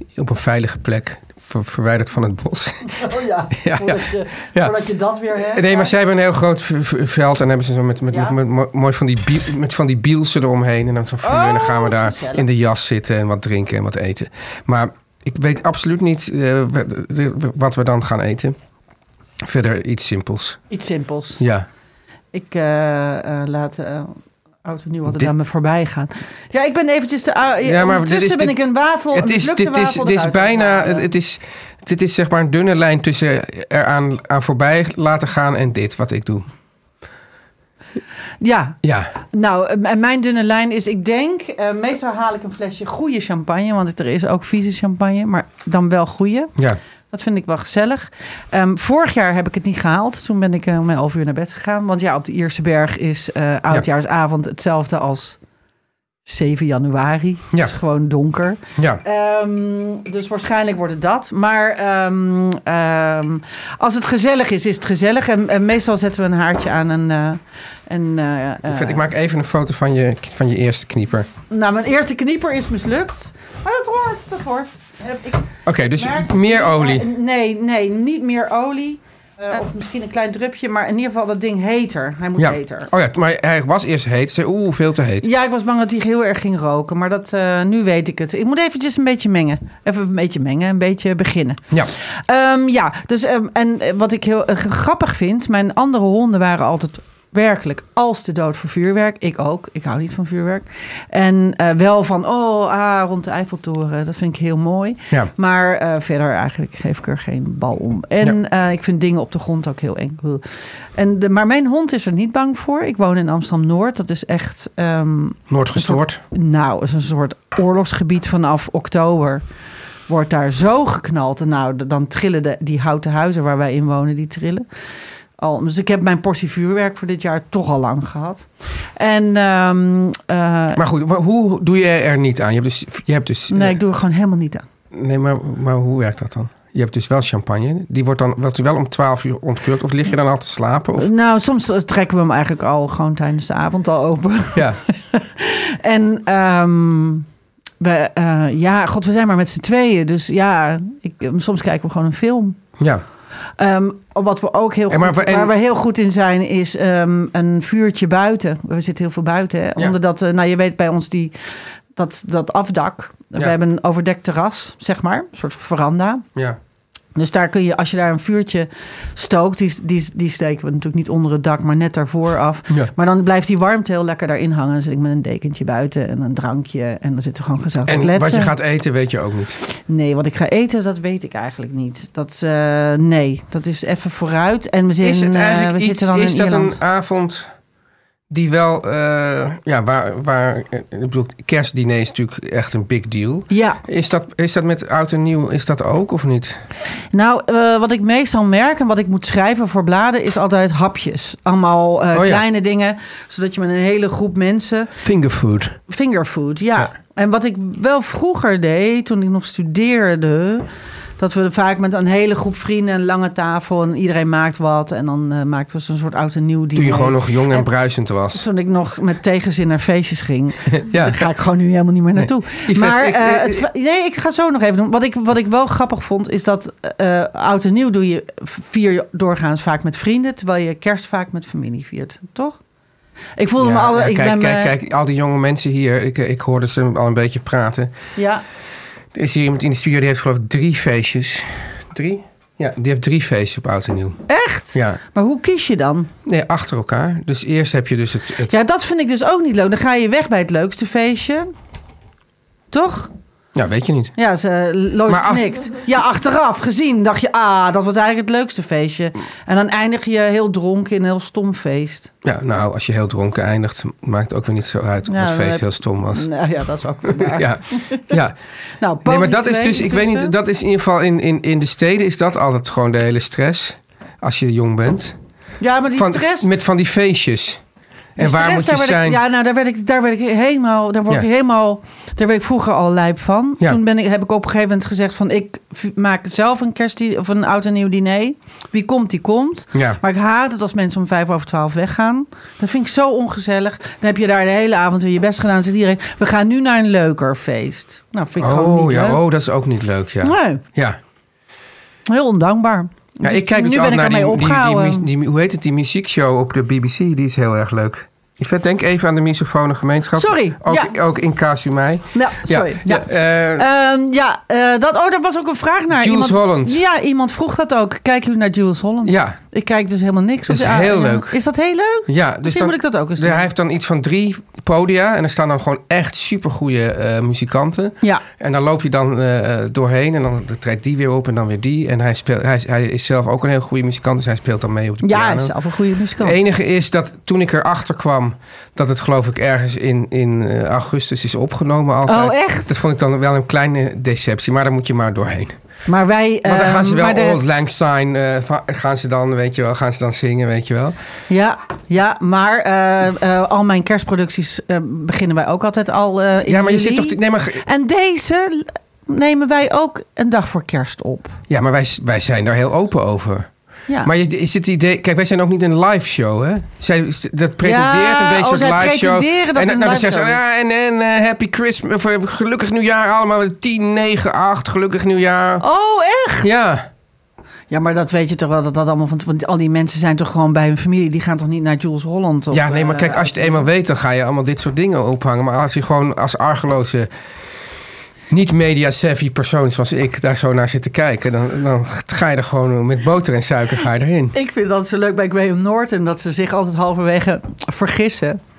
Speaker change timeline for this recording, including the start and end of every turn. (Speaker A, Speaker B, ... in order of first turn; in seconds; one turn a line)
Speaker A: 0.1-4.8
Speaker B: 2.8-5.9
Speaker A: 5.3-18.6
Speaker B: 8.1-8.4
Speaker B: 11.2-12.4
Speaker A: 19.4-20.6
Speaker B: 20.7-21.4
Speaker A: 21.4-21.6
Speaker B: 22.3-31.1
Speaker A: 25.1-25.3
Speaker A: 27.6-28.6
Speaker A: 29.1-36.5
Speaker B: 38.4-38.8
Speaker A: 38.8-39.1
Speaker B: 39.3-46.5
Speaker B: 47.1-55.4
Speaker B: 56.2-69.0
Speaker A: 68.6-71.3
Speaker B: 71.5-82.9
Speaker A: 75.6-77.1
Speaker A: 82.4-85.3
Speaker B: 85.2-110.4
Speaker B: 111.0-119.4
Speaker A: 115.5-116.2
Speaker B: 120.1-124.7
Speaker B: 125.4-130.8
Speaker A: 130.7-133.8
Speaker B: 133.5-134.7
Speaker A: 134.9-141.1
Speaker B: 141.0-147.2
Speaker B: 147.8-152.6
Speaker B: 153.6-161.3
Speaker A: 154.9-155.5
Speaker B: 161.9-166.2
Speaker B: 167.2-178.6
Speaker A: 177.8-179.6
Speaker B: 179.7-186.8
Speaker A: 185.0-187.5
Speaker A: 188.3-196.6
Speaker B: 193.5-193.8
Speaker B: 197.1-204.9
Speaker A: 202.1-202.4
Speaker A: 205.0-205.8
Speaker B: 205.9-210.7
Speaker B: 211.2-217.7
Speaker A: 216.7-218.4
Speaker B: 218.3-232.6
Speaker A: 220.7-221.3
Speaker A: 222.2-223.7
Speaker B: 233.4-234.7
Speaker A: 233.6-237.9
Speaker B: 238.2-238.4
Speaker A: 239.1-244.2
Speaker B: 244.3-246.1
Speaker A: 244.7-245.0
Speaker A: 246.3-248.5
Speaker B: 248.5-251.5
Speaker B: 252.7-253.1
Speaker A: 253.6-254.2
Speaker B: 254.2-262.1
Speaker A: 255.1-255.6
Speaker A: 262.2-266.3
Speaker B: 265.1-268.1
Speaker A: 267.1-268.4
Speaker B: 268.8-270.3
Speaker A: 269.0-275.2
Speaker B: 275.6-276.5
Speaker A: 275.9-277.6
Speaker A: 278.2-279.2
Speaker B: 278.2-299.2
Speaker A: 289.7-290.0
Speaker A: 298.4-301.0
Speaker B: 300.2-300.6
Speaker B: 302.1-305.1
Speaker A: 303.2-313.7
Speaker B: 310.2-310.9
Speaker B: 312.1-323.5
Speaker A: 315.9-316.8
Speaker A: 319.1-319.4
Speaker A: 320.5-321.4
Speaker A: 322.1-335.6
Speaker B: 335.0-336.4
Speaker A: 336.2-345.6
Speaker B: 342.1-342.8
Speaker B: 345.9-347.4
Speaker A: 346.4-350.9
Speaker B: 351.3-361.4
Speaker A: 356.4-357.6
Speaker A: 361.5-363.5
Speaker A: 364.0-375.6
Speaker B: 367.6-370.4
Speaker B: 375.6-376.5
Speaker A: 376.4-376.9
Speaker B: 377.7-383.6
Speaker A: 382.5-387.1
Speaker A: 388.3-394.3
Speaker B: 394.3-398.4